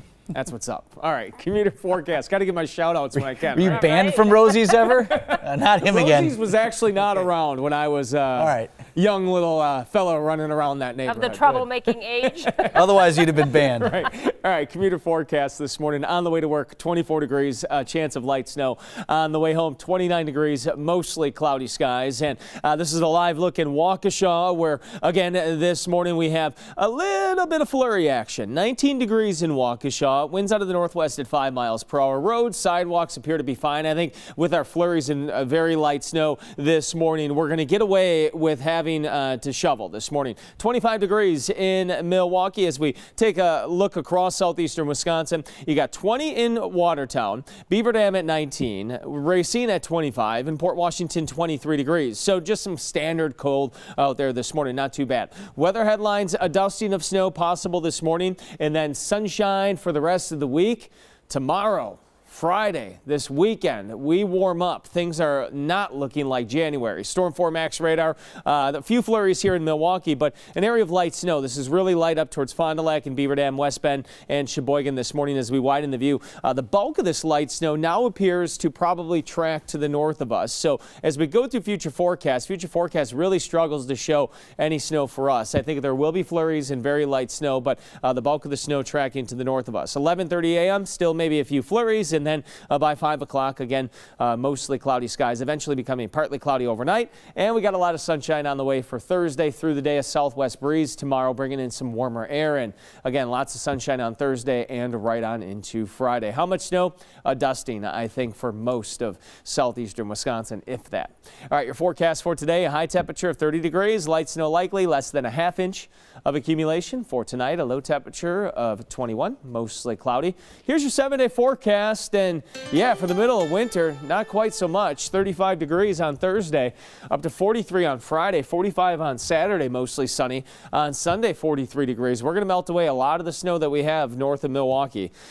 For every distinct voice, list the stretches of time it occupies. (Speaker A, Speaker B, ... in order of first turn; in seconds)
Speaker A: 0.3-3.9, 4.8-11.7, 12.4-12.9, 13.4-135.1
Speaker B: 3.4-6.4, 8.4-8.7, 12.7-13.9
Speaker C: 3.6-4.6, 11.1-12.7